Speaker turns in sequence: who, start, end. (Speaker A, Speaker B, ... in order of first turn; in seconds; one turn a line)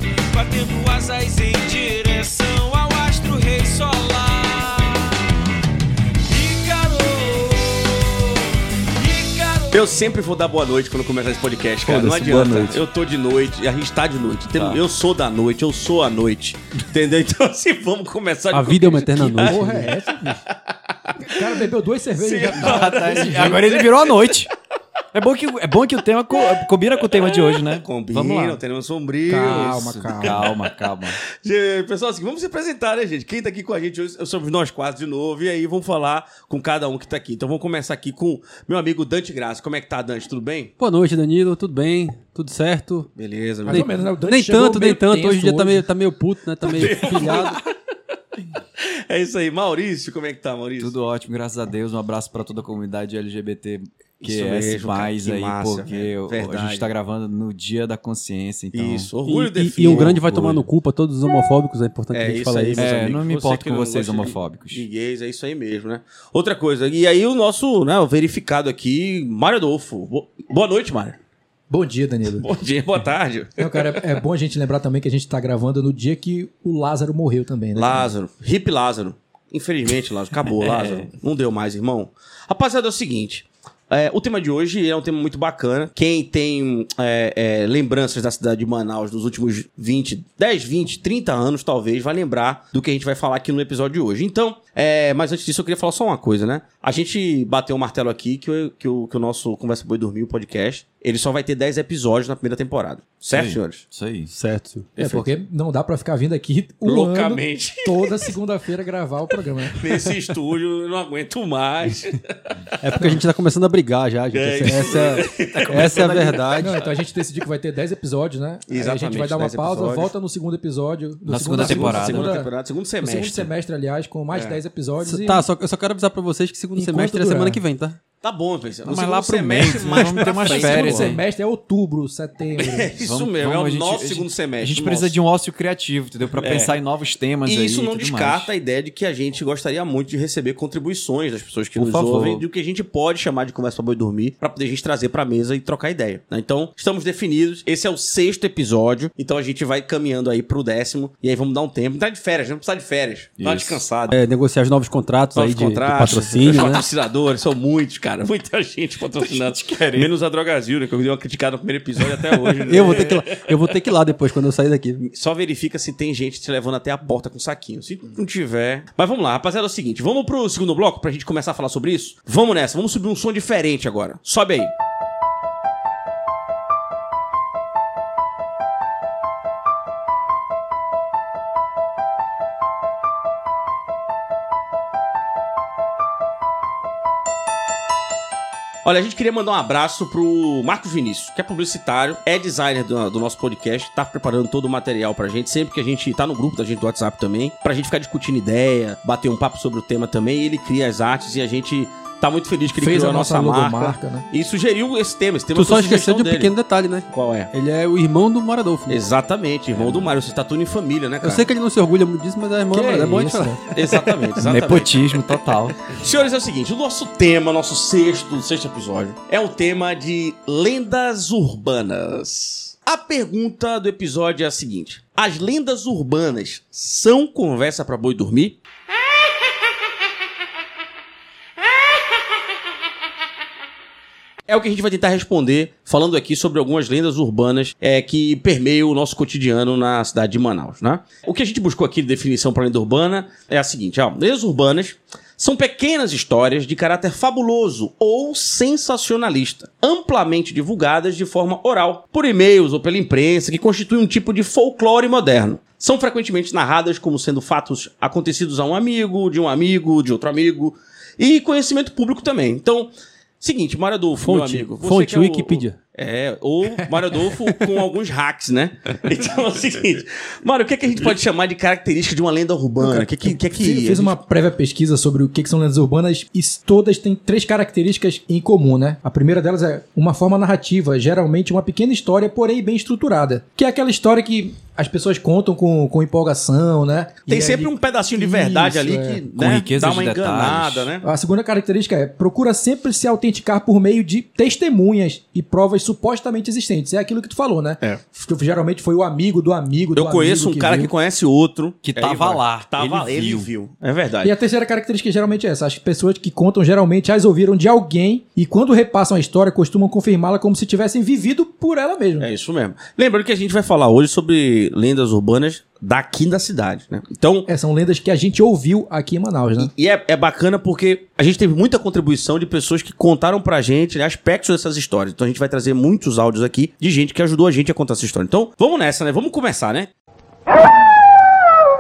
Speaker A: 0.3-5.2
Speaker A: 6.3-10.0
Speaker B: 9.7-20.5
Speaker C: 14.5-14.8
Speaker D: 18.5-19.9
Speaker E: 19.4-20.4
Speaker B: 21.1-21.5
Speaker E: 21.3-23.6
Speaker B: 22.2-24.3
Speaker C: 22.5-24.5
Speaker C: 25.1-28.6
Speaker B: 27.1-30.7
Speaker E: 29.3-30.4
Speaker C: 29.4-31.2
Speaker B: 31.4-40.7
Speaker D: 40.8-43.1
Speaker B: 43.2-43.9
Speaker E: 43.7-45.9
Speaker D: 43.7-47.6
Speaker B: 46.6-47.6
Speaker B: 48.8-50.9
Speaker C: 50.8-59.1
Speaker B: 54.2-56.9
Speaker B: 58.7-60.7
Speaker D: 59.3-62.9
Speaker B: 62.1-71.2
Speaker C: 62.8-64.8
Speaker E: 71.7-72.5
Speaker B: 72.4-74.0
Speaker E: 73.6-78.1
Speaker B: 77.8-103.9
Speaker C: 80.7-80.9
Speaker C: 103.3-104.3
Speaker D: 104.3-104.9
Speaker B: 105.0-105.3
Speaker E: 105.0-110.1
Speaker B: 106.8-108.3
Speaker B: 109.7-112.2
Speaker D: 112.8-116.8
Speaker B: 114.3-116.9
Speaker C: 115.6-116.0
Speaker E: 116.6-122.5
Speaker B: 118.7-120.1
Speaker C: 121.3-122.3
Speaker B: 121.6-123.5
Speaker E: 123.0-125.5
Speaker B: 124.3-124.6
Speaker D: 125.0-128.0
Speaker E: 126.8-127.6
Speaker B: 128.2-131.2
Speaker C: 128.9-131.2
Speaker E: 130.2-132.9
Speaker B: 132.6-135.2
Speaker C: 133.0-138.5
Speaker B: 136.4-136.8
Speaker B: 137.4-154.2
Speaker C: 141.8-142.4
Speaker C: 153.4-153.8
Speaker D: 154.1-156.8
Speaker B: 155.3-163.7
Speaker C: 159.2-160.1
Speaker D: 162.7-165.0
Speaker B: 165.0-174.7
Speaker B: 188.8-206.5
Speaker E: 202.8-204.3
Speaker D: 205.6-209.0
Speaker B: 207.1-207.5
Speaker B: 208.9-211.5
Speaker C: 209.8-210.1
Speaker D: 211.2-213.8
Speaker E: 212.7-213.6
Speaker B: 213.7-228.6
Speaker C: 214.4-216.0
Speaker B: 234.5-274.2
Speaker D: 264.2-265.8
Speaker E: 272.8-289.2
Speaker B: 287.3-291.1
Speaker C: 289.4-290.9
Speaker E: 291.0-300.9
Speaker B: 299.9-304.3
Speaker C: 301.8-303.5
Speaker E: 304.2-312.3
Speaker B: 312.2-317.5
Speaker E: 317.5-319.7
Speaker B: 319.6-329.9